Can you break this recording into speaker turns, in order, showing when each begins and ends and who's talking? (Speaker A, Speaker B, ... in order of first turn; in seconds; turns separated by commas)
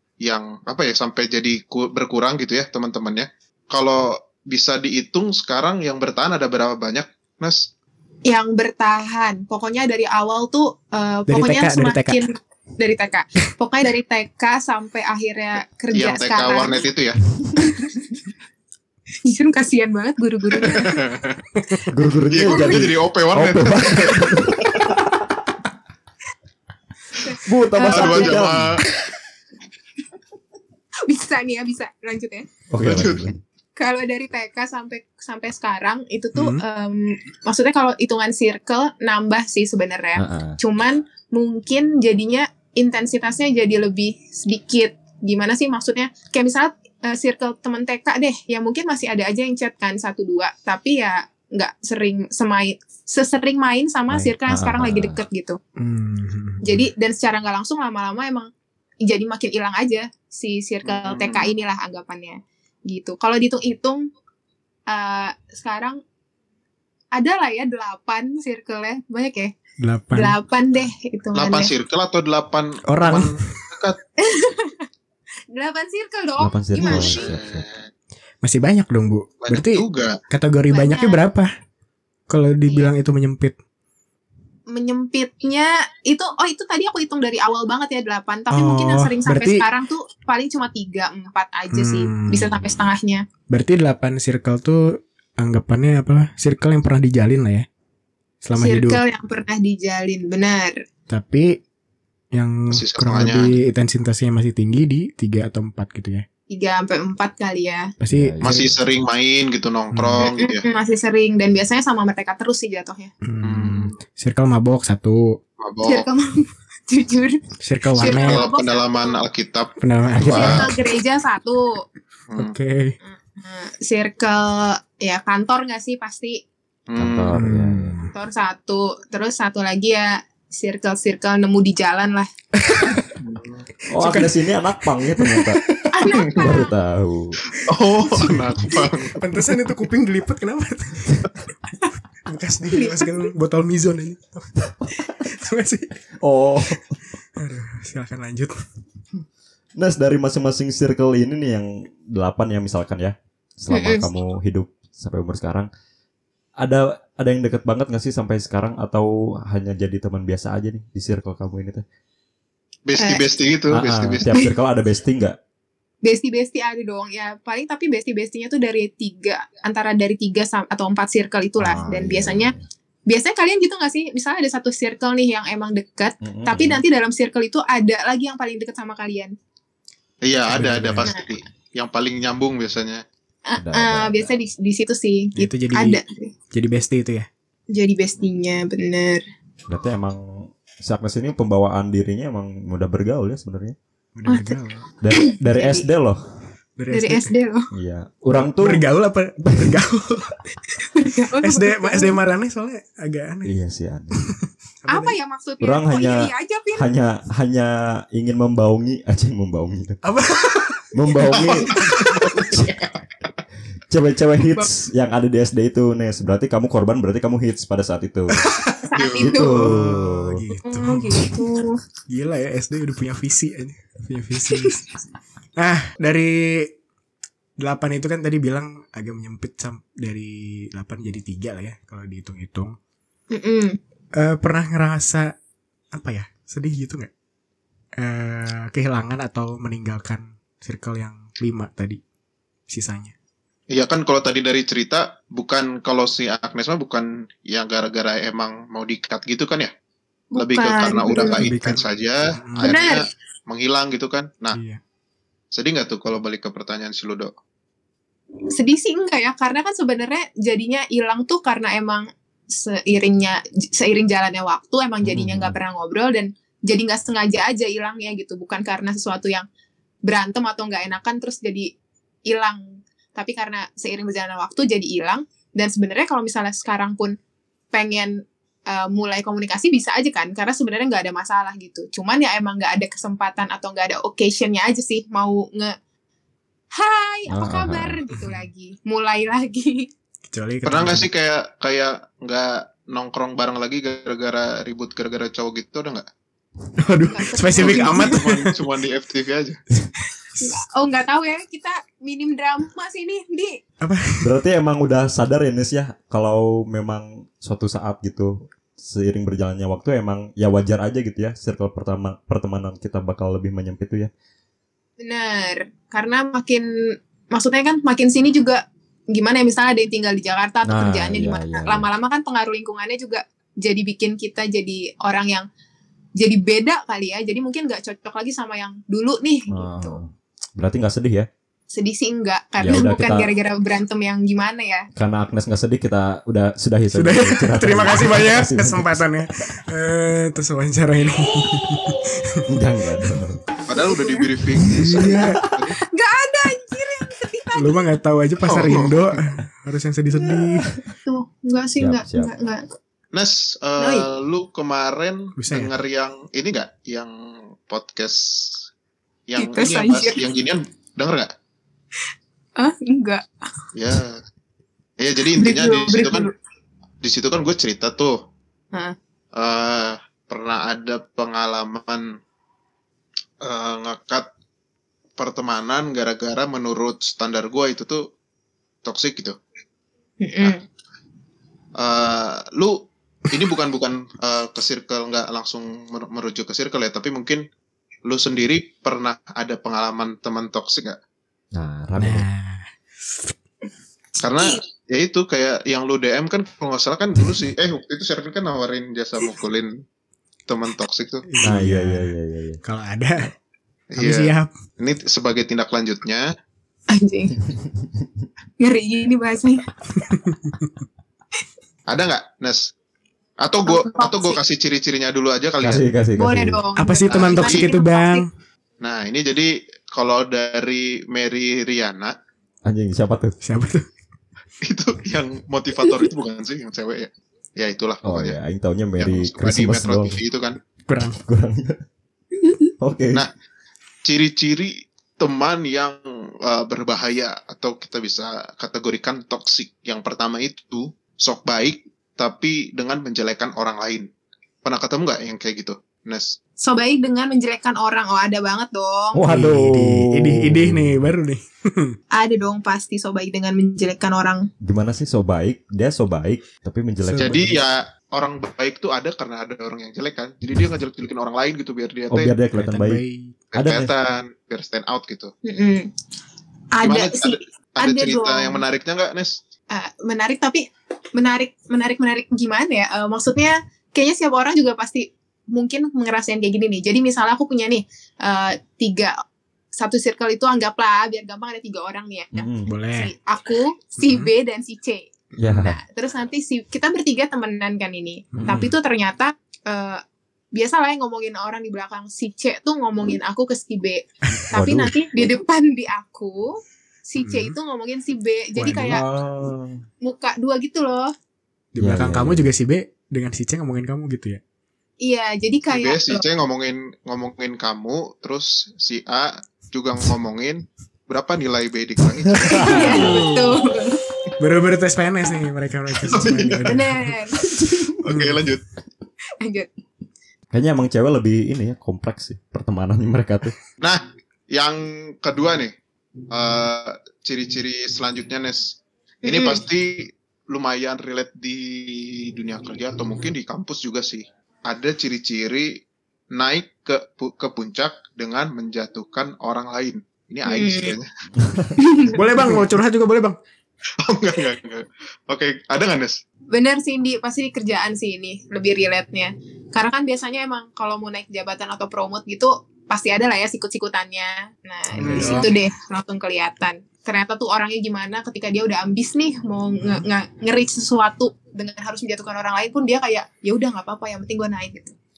Speaker A: 0.2-7.7, Speaker B: 8.2-16.8, Speaker C: 11.3-12.2, Speaker A: 15.9-17.2, Speaker B: 17.6-18.1, Speaker B: 19.2-21.0, Speaker A: 20.6-21.4, Speaker D: 21.9-25.2, Speaker A: 22.3-24.9, Speaker B: 22.5-22.8, Speaker B: 27.2-28.9, Speaker D: 27.4-28.8, Speaker A: 27.9-28.8, Speaker B: 31.1-32.5, Speaker D: 32.7-33.4, Speaker A: 32.8-33.3, Speaker B: 33.8-55.6, Speaker C: 36.3-36.6, Speaker D: 40.1-40.6, Speaker D: 54.1-55.2, Speaker C: 55.8-56.8, Speaker B: 56.6-58.5, Speaker B: 59.0-64.1, Speaker A: 60.8-61.5, Speaker B: 64.9-66.0, Speaker B: 67.1-69.5, Speaker C: 69.8-70.4, Speaker B: 70.1-71.7, Speaker A: 71.3-74.0, Speaker C: 72.9-73.5, Speaker B: 74.2-74.8, Speaker B: 75.5-77.3, Speaker D: 76.4-77.7, Speaker A: 76.8-77.9, Speaker C: 78.4-81.5, Speaker A: 79.4-80.2, Speaker B: 80.7-81.2, Speaker C: 82.3-83.5, Speaker B: 84.7-93.2, Speaker C: 88.5-89.6, Speaker C: 91.7-92.6, Speaker C: 93.5-97.7, Speaker C: 98.4-99.0, Speaker B: 98.6-100.8, Speaker C: 101.1-101.6, Speaker C: 102.3-106.2, Speaker A: 102.7-103.5, Speaker B: 106.5-107.9, Speaker C: 108.0-108.7, Speaker D: 108.1-108.8, Speaker A: 108.4-110.6, Speaker C: 109.9-110.3, Speaker B: 110.2-113.1, Speaker C: 113.2-115.4, Speaker A: 113.4-113.9, Speaker A: 115.6-116.0, Speaker B: 115.8-117.4, Speaker C: 117.6-118.4, Speaker A: 118.0-120.7, Speaker B: 118.0-119.2, Speaker C: 119.8-120.8, Speaker B: 120.2-121.8, Speaker C: 122.3-123.0, Speaker B: 123.0-126.4, Speaker A: 126.9-127.3, Speaker D: 127.0-128.0, Speaker C: 127.3-128.1, Speaker B: 128.1-132.3, Speaker C: 132.6-133.1, Speaker A: 133.2-133.7, Speaker D: 133.9-137.4, Speaker C: 133.9-134.4, Speaker C: 135.0-135.9, Speaker B: 135.9-136.7, Speaker A: 136.1-136.5, Speaker A: 137.6-139.2, Speaker C: 138.0-141.3, Speaker C: 142.2-145.9, Speaker B: 142.7-143.2, Speaker D: 146.2-146.8, Speaker C: 147.4-148.5, Speaker D: 149.8-155.7, Speaker B: 153.7-154.1, Speaker D: 156.6-161.8, Speaker A: 162.8-164.3, Speaker B: 163.0-163.2, Speaker D: 163.7-165.4, Speaker B: 166.0-172.5, Speaker D: 171.6-172.6, Speaker B: 173.1-179.3, Speaker D: 176.2-176.8, Speaker A: 180.2-183.0, Speaker C: 180.5-181.1, Speaker B: 183.5-186.3, Speaker D: 183.6-184.3, Speaker C: 185.4-187.3, Speaker B: 187.7-189.2, Speaker D: 189.7-193.8, Speaker C: 194.2-194.8, Speaker B: 194.2-194.6, Speaker D: 195.0-196.2, Speaker B: 195.1-195.9, Speaker C: 196.8-197.3, Speaker B: 196.9-197.7, Speaker D: 197.7-198.8, Speaker C: 198.4-200.4, Speaker B: 200.8-202.2, Speaker C: 201.4-203.5, Speaker D: 203.4-204.2, Speaker C: 204.8-205.1, Speaker B: 204.9-206.9, Speaker D: 205.6-210.0, Speaker C: 210.0-212.4, Speaker D: 210.9-212.7, Speaker A: 211.3-212.8, Speaker D: 213.9-218.4, Speaker C: 218.4-218.7, Speaker B: 218.8-219.6, Speaker A: 218.9-219.4, Speaker D: 219.2-220.4, Speaker C: 219.5-221.4, Speaker B: 220.6-221.8, Speaker C: 222.1-224.8, Speaker C: 225.6-226.7, Speaker C: 227.6-232.7, Speaker B: 233.3-233.8, Speaker C: 234.1-235.3, Speaker C: 235.9-237.1, Speaker C: 238.0-242.0, Speaker C: 242.7-243.1, Speaker A: 243.7-249.7, Speaker B: 250.3-251.4, Speaker A: 250.3-254.6, Speaker C: 251.1-252.8, Speaker B: 252.6-253.1, Speaker C: 254.5-254.8, Speaker A: 255.5-257.3, Speaker B: 258.5-269.4, Speaker D: 265.0-265.6, Speaker B: 270.0-271.7, Speaker B: 272.3-277.1, Speaker B: 277.7-285.8, Speaker B: 286.7-289.9, Speaker D: 287.3-288.0, Speaker C: 288.1-288.4, Speaker C: 290.3-291.1, Speaker A: 290.6-296.1, Speaker C: 296.8-298.6, Speaker B: 297.1-298.2, Speaker A: 297.5-299.6, Speaker B: 300.4-303.6, Speaker C: 303.8-304.3, Speaker D: 304.2-314.1, Speaker B: 315.0-316.7, Speaker B: 317.3-325.5, Speaker D: 320.6-321.9, Speaker B: 326.2-330.0, Speaker D: 329.5-331.3, Speaker B: 331.7-334.9, Speaker D: 332.6-333.3, Speaker D: 334.9-339.0, Speaker C: 336.9-342.4, Speaker D: 342.5-343.5, Speaker A: 343.7-345.8, Speaker B: 343.8-344.3, Speaker D: 344.7-345.3, Speaker C: 344.7-345.4, Speaker B: 345.8-347.9, Speaker C: 347.5-350.7, Speaker A: 348.4-349.2, Speaker D: 350.3-350.6, Speaker B: 351.0-352.6, Speaker D: 351.8-352.3, Speaker A: 353.1-358.7, Speaker B: 353.8-354.1, Speaker C: 355.4-355.7, Speaker A: 359.3-361.3, Speaker B: 359.4-360.2, Speaker B: 362.6-363.7, Speaker A: 363.7-364.2, Speaker A: 365.0-366.3, Speaker B: 365.3-366.3, Speaker A: 367.0-368.2, Speaker A: 369.3-372.2, Speaker A: 373.4-374.3, Speaker A: 375.2-378.1, Speaker A: 378.8-379.4, Speaker B: 380.2-380.6, Speaker A: 381.8-387.4, Speaker A: 388.0-391.0, Speaker D: 391.5-392.2, Speaker C: 392.0-393.3, Speaker A: 394.2-399.8, Speaker A: 400.5-401.2, Speaker C: 401.3-403.3, Speaker D: 401.4-402.6, Speaker A: 403.9-406.3, Speaker C: 404.0-404.5, Speaker B: 406.9-407.4, Speaker D: 407.6-408.2, Speaker B: 408.6-410.1, Speaker C: 410.1-410.5, Speaker A: 411.9-412.7, Speaker A: 413.4-415.9, Speaker B: 413.6-414.4, Speaker D: 415.6-416.6, Speaker B: 416.2-418.2, Speaker C: 416.8-418.3, Speaker A: 417.1-417.7, Speaker A: 418.8-422.1, Speaker D: 422.6-423.4, Speaker C: 423.4-423.9, Speaker A: 424.6-428.4, Speaker D: 428.0-430.2, Speaker A: 429.0-430.6, Speaker C: 430.9-431.2, Speaker D: 431.1-431.8, Speaker D: 432.8-433.2, Speaker A: 434.0-444.1, Speaker A: 444.6-446.4, Speaker B: 446.6-449.2, Speaker D: 449.1-451.0, Speaker C: 449.3-452.0, Speaker B: 452.1-454.5, Speaker D: 454.6-457.5, Speaker C: 457.0-457.6, Speaker A: 457.2-462.3, Speaker D: 462.1-463.0, Speaker C: 462.5-463.4, Speaker A: 463.5-465.3, Speaker D: 463.5-463.9, Speaker B: 465.4-465.9, Speaker B: 466.7-468.6, Speaker A: 466.8-469.4, Speaker B: 469.7-479.1, Speaker B: 479.7-490.0, Speaker D: 482.3-482.7, Speaker C: 482.6-483.1, Speaker C: 484.0-484.3, Speaker D: 485.4-485.8, Speaker C: 488.3-488.7, Speaker D: 488.3-488.7, Speaker B: 490.5-499.0, Speaker D: 494.4-495.0, Speaker C: 497.2-497.6, Speaker C: 498.6-498.9, Speaker D: 498.7-499.8, Speaker B: 500.0-501.1, Speaker C: 501.7-504.4, Speaker D: 501.8-502.5, Speaker B: 505.0-506.2, Speaker A: 505.7-513.0, Speaker D: 512.3-513.2, Speaker B: 512.5-514.0, Speaker C: 512.6-513.6, Speaker C: 514.4-517.1, Speaker A: 516.0-516.8, Speaker B: 516.6-517.5, Speaker D: 517.4-518.0, Speaker A: 518.0-518.6, Speaker C: 518.0-518.5, Speaker B: 519.4-519.7, Speaker D: 520.5-523.5, Speaker A: 523.8-525.7, Speaker A: 526.3-541.1, Speaker B: 529.2-529.6, Speaker B: 540.5-540.9, Speaker D: 541.4-541.7, Speaker B: 541.8-542.2, Speaker C: 542.1-543.4, Speaker A: 544.0-546.2, Speaker B: 546.5-564.9, Speaker A: 555.0-555.5, Speaker C: 555.0-555.5